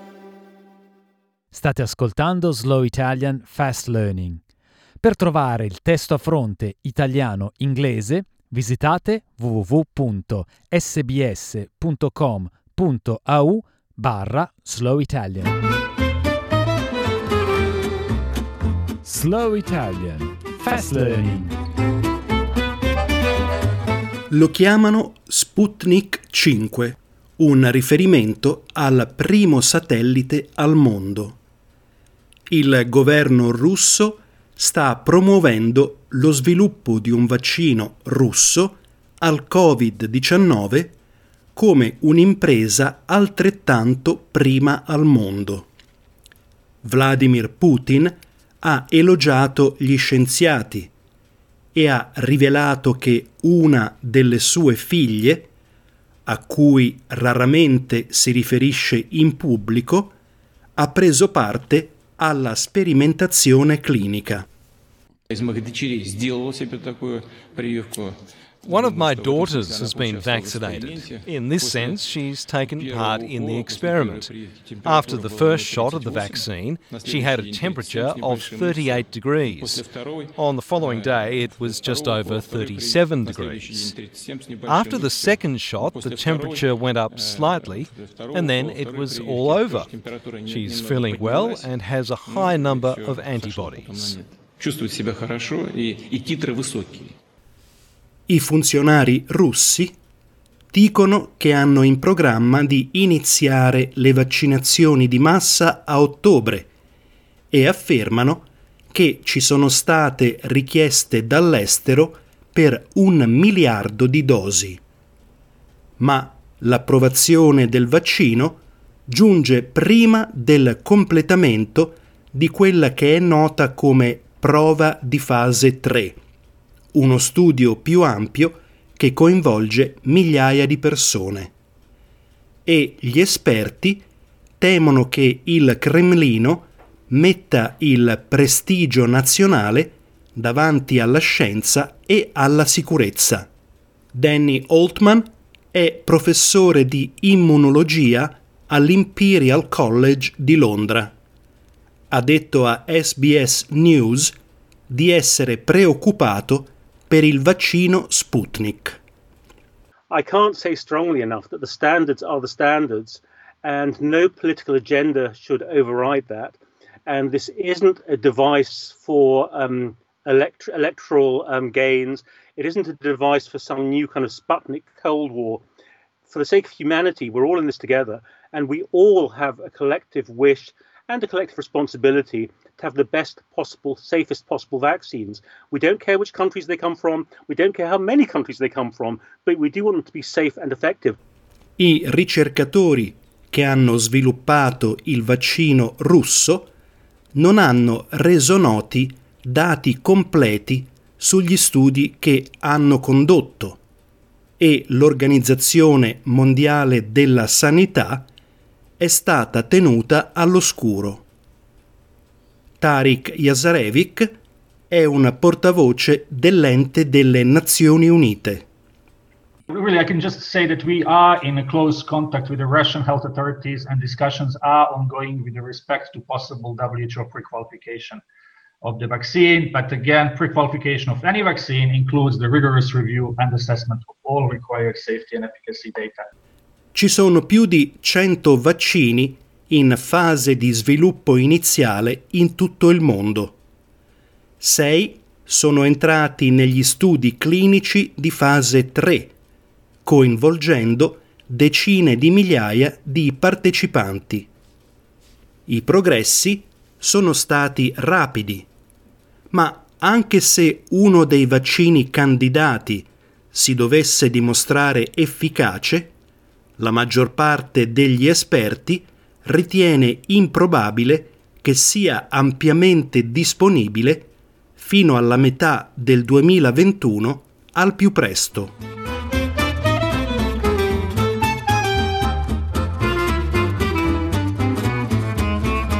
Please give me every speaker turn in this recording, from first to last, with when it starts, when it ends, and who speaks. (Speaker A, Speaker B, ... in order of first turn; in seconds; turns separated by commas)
Speaker A: 1.5-4.4, Speaker A: 5.0-15.5, Speaker A: 19.0-21.5, Speaker B: 24.3-31.4, Speaker B: 32.5-41.0, Speaker B: 41.5-45.7, Speaker B: 46.8-50.9, Speaker B: 51.7-55.5, Speaker B: 56.2-60.1, Speaker B: 60.8-64.4, Speaker C: 65.3-72.1, Speaker D: 68.6-74.3, Speaker C: 72.7-91.7, Speaker D: 74.8-79.8, Speaker D: 80.3-83.8, Speaker D: 84.6-89.9, Speaker D: 90.5-94.1, Speaker C: 92.2-97.2, Speaker B: 98.3-99.9, Speaker B: 100.7-106.7, Speaker B: 107.5-114.8, Speaker B: 116.0-126.2, Speaker B: 126.9-131.5, Speaker B: 132.7-134.0, Speaker B: 134.6-143.5, Speaker B: 144.1-151.1, Speaker B: 152.1-154.3, Speaker B: 154.9-159.0, Speaker E: 160.1-175.6, Speaker E: 176.3-191.2, Speaker B: 191.8-196.7, Speaker B: 197.3-203.8, Speaker B: 204.6-208.3, Speaker B: 209.0-211.2, Speaker B: 212.8-214.4, Speaker B: 214.9-218.7, Speaker F: 219.7-228.2, Speaker F: 228.8-236.3, Speaker B: 236.9-243.6, Speaker B: 244.6-249.3, Speaker B: 250.0-254.5, Speaker B: 255.7-258.7, Speaker B: 259.5-266.1, Speaker B: 266.8-278.8